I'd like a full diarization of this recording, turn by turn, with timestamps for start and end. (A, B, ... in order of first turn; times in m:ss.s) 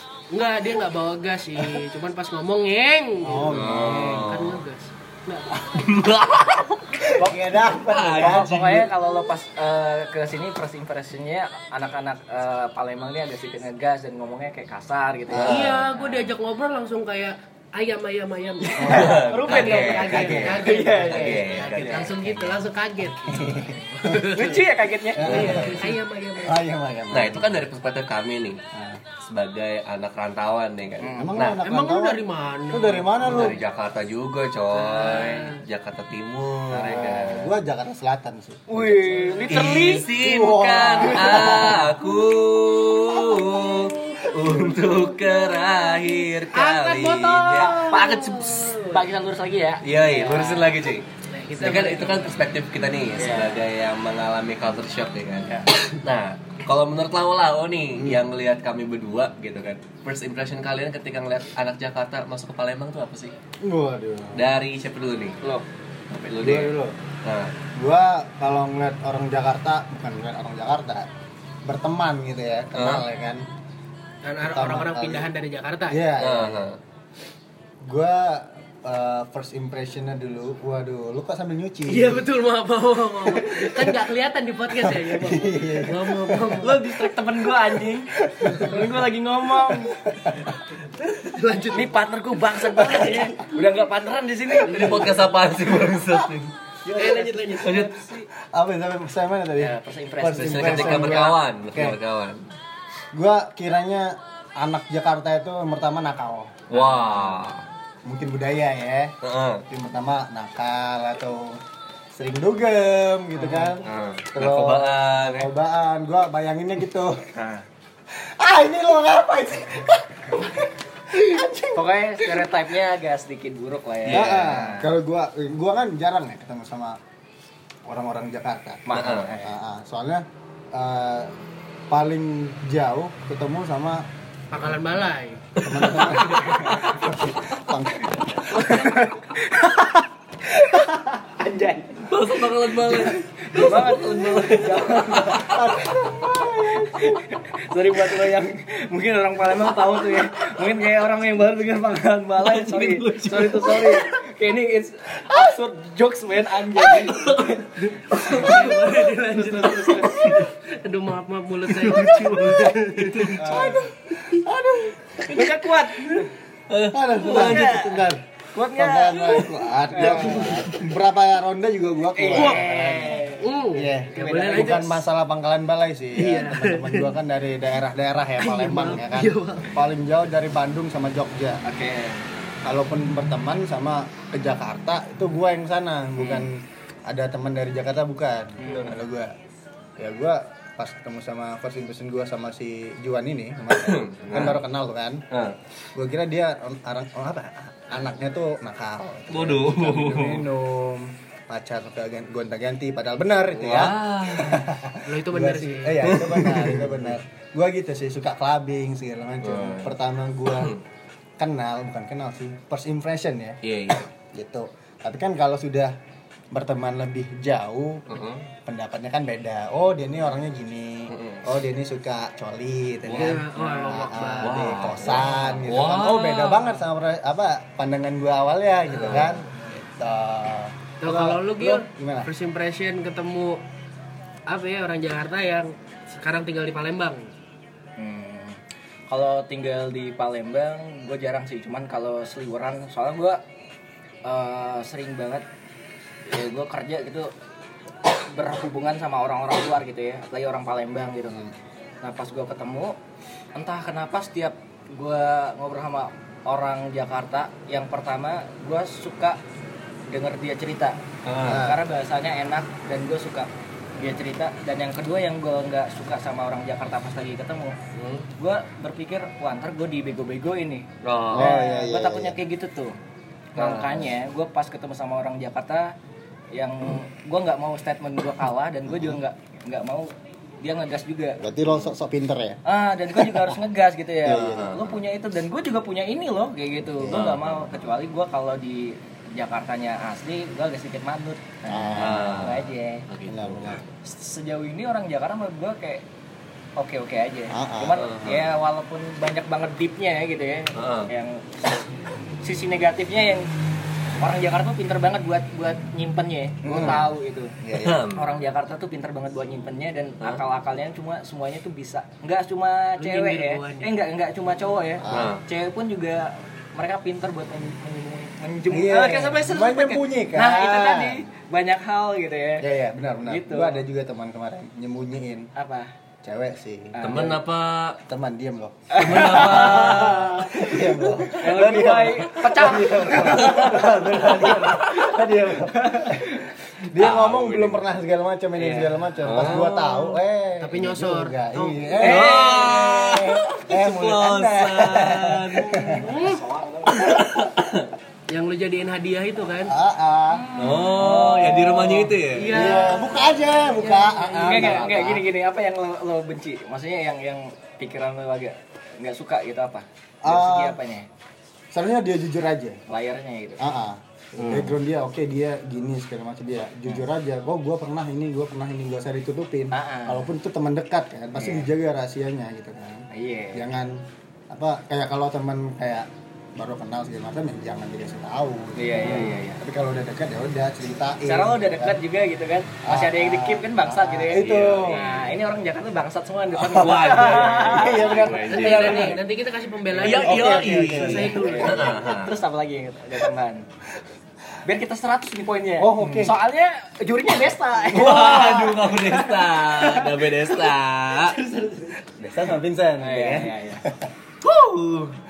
0:00.3-0:05.6 A
0:03.2-0:04.3 B
0:03.5-0:04.6 C
0:05.6-0:07.0 C
0:07.1-0:08.5 B
0:07.2-0:16.2 D
0:07.8-0:08.9 C
0:15.3-0:15.7 B
0:15.4-0:15.9 C
0:15.4-0:24.7 A
0:18.6-0:22.2 D
0:18.8-0:19.4 B
0:18.9-0:21.9 C
0:20.1-0:20.7 B
0:23.2-0:24.2 B
0:24.3-0:25.7 D
0:25.1-0:27.5 B
0:25.2-0:26.6 A
0:25.3-0:25.8 C
0:27.1-0:28.6 C
0:28.7-0:29.0 B
0:29.2-0:31.6 C
0:31.0-0:31.3 D
0:31.1-0:33.6 B
0:31.6-0:33.4 A
0:33.2-0:37.5 C
0:34.7-0:35.6 A
0:36.7-0:37.1 D
0:36.8-0:42.0 B
0:38.7-0:40.1 D
0:39.5-0:48.0 C
0:41.2-0:41.6 D
0:44.1-0:44.9 B
0:46.5-0:49.1 A
0:47.6-0:50.8 D
0:49.8-0:51.0 C
0:51.2-0:52.5 A
0:51.6-1:03.3 C
0:53.2-0:53.7 D
0:58.0-0:58.2 B
1:03.6-1:04.4 B
1:04.3-1:05.4 C
1:06.1-1:07.5 C
1:06.4-1:07.0 B
1:07.7-1:11.1 B
1:11.6-1:13.4 B
1:12.8-1:13.0 C
1:14.2-1:16.0 A
1:14.4-1:15.3 B
1:15.9-1:16.7 B
1:16.2-1:16.8 C
1:17.8-1:22.2 B
1:21.9-1:26.8 A
1:23.4-1:23.9 B
1:24.8-1:26.8 B
1:26.6-1:30.0 D
1:28.2-1:28.9 B
1:28.6-1:28.8 A
1:29.7-1:30.4 B
1:31.0-1:32.0 A
1:31.7-1:35.2 D
1:32.8-1:33.3 B
1:32.9-1:33.4 A
1:34.6-1:36.5 C
1:34.6-1:35.3 A
1:36.8-1:37.7 D
1:36.9-1:38.3 A
1:37.6-1:38.0 C
1:38.4-1:42.0 B
1:39.6-1:41.3 D
1:40.2-1:42.4 C
1:43.1-1:47.4 B
1:46.7-1:47.6 C
1:48.0-1:49.1 B
1:49.2-1:49.6 C
1:49.7-1:51.6 B
1:52.1-1:57.3 B
1:53.4-1:53.8 D
1:53.8-1:55.5 C
1:58.1-2:02.6 B
2:01.7-2:04.9 D
2:04.0-2:04.7 C
2:04.1-2:07.0 B
2:07.8-2:11.3 B
2:08.8-2:09.5 D
2:08.9-2:09.3 C
2:11.9-2:14.0 B
2:14.5-2:15.4 A
2:15.6-2:16.4 C
2:15.6-2:18.6 B
2:16.1-2:16.5 A
2:16.3-2:16.7 D
2:18.5-2:22.2 D
2:22.0-2:25.7 C
2:22.8-2:40.3 D
2:32.4-2:34.0 C
2:36.8-2:38.7 C
2:38.2-2:44.4 A
2:40.0-2:40.4 C
2:41.7-2:43.4 C
2:43.4-2:43.8 D
2:43.4-2:45.6 B
2:45.2-2:46.3 D
2:46.7-2:47.8 C
2:46.9-2:48.2 B
2:47.3-2:50.7 D
2:48.7-3:01.6 B
2:52.2-2:53.4 D
2:53.4-2:55.0 A
2:54.2-2:54.9 D
2:56.2-2:57.1 A
2:58.4-2:59.7 A
3:01.6-3:02.2 D
3:02.6-3:09.3 B
3:06.2-3:06.5 D
3:08.6-3:09.0 D
3:10.0-3:15.2 B
3:13.8-3:14.6 C
3:15.3-3:15.6 C
3:15.9-3:30.7 B
3:19.3-3:20.5 C
3:23.6-3:24.7 C
3:25.0-3:26.1 A
3:26.0-3:27.0 C
3:29.4-3:29.9 C
3:30.6-3:30.8 C
3:31.4-3:33.6 B
3:33.6-3:34.1 C
3:34.1-3:35.9 B
3:36.5-3:38.1 B
3:38.1-3:38.5 C
3:38.6-3:52.3 B
3:41.1-3:41.4 C
3:43.1-3:45.2 A
3:44.4-3:46.8 C
3:48.9-3:49.4 C
3:51.0-3:53.6 A
3:54.5-3:57.3 A
3:58.0-3:58.6 D
3:59.1-4:03.4 D
4:04.2-4:05.4 D
4:06.3-4:07.3 D
4:08.3-4:13.0 D
4:13.5-4:19.4 D
4:20.1-4:21.0 D
4:21.2-4:21.7 C
4:21.4-4:21.8 B
4:21.5-4:27.8 D
4:27.9-4:28.3 C
4:28.4-4:33.0 D
4:31.0-4:31.5 C
4:31.3-4:32.4 B
4:33.5-4:35.9 D
4:33.6-4:34.1 C
4:36.5-4:41.4 D
4:38.9-4:39.2 B
4:41.4-4:42.6 B
4:42.6-4:53.0 D
4:43.1-4:43.6 B
4:44.2-4:44.7 B
4:44.3-4:45.0 C
4:47.0-4:47.3 B
4:47.1-4:47.9 C
4:51.7-4:52.4 B
4:52.0-4:53.8 C
4:53.3-4:53.8 B
4:54.0-4:56.0 D
4:56.8-5:03.5 D
4:57.5-4:58.0 B
4:57.9-4:58.5 C
5:00.7-5:01.1 C
5:04.2-5:07.6 D
5:06.6-5:08.0 B
5:07.7-5:08.2 C
5:08.1-5:22.7 D
5:13.0-5:13.9 A
5:15.0-5:15.3 B
5:15.1-5:15.4 C
5:18.7-5:21.2 B
5:22.6-5:25.5 B
5:23.2-5:23.8 D
5:25.6-5:25.9 D
5:26.2-5:27.4 B
5:26.9-5:27.4 D
5:27.0-5:28.0 C
5:28.1-5:46.1 B
5:28.9-5:36.5 D
5:28.9-5:30.3 C
5:31.4-5:32.4 C
5:33.4-5:33.7 C
5:36.9-5:37.8 C
5:38.6-5:39.1 D
5:39.2-5:39.9 C
5:39.4-5:41.9 A
5:42.0-5:43.0 D
5:42.0-5:45.9 C
5:45.8-5:47.2 D
5:45.9-5:46.4 A
5:46.9-5:47.9 C
5:48.3-5:49.7 A
5:49.7-5:50.4 B
5:50.3-5:52.1 D
5:50.6-5:52.7 C
5:52.3-5:55.1 A
5:52.4-5:55.3 B
5:54.4-6:01.0 D
6:00.2-6:00.8 B
6:01.7-6:02.8 B
6:02.9-6:03.7 D
6:03.6-6:22.0 B
6:04.4-6:04.8 C
6:09.7-6:10.3 D
6:11.3-6:11.7 D
6:13.1-6:13.7 D
6:18.8-6:19.6 D
6:21.2-6:29.2 D
6:22.8-6:25.2 B
6:24.3-6:25.2 C
6:26.6-6:29.2 C
6:27.0-6:28.5 B
6:28.5-6:31.9 A
6:30.0-6:32.3 C
6:30.0-6:32.0 B
6:30.7-6:33.6 D
6:34.6-6:42.1 D
6:35.8-6:36.4 B
6:37.9-6:41.4 C
6:42.2-6:44.1 B
6:43.0-6:43.8 D
6:44.4-6:45.2 C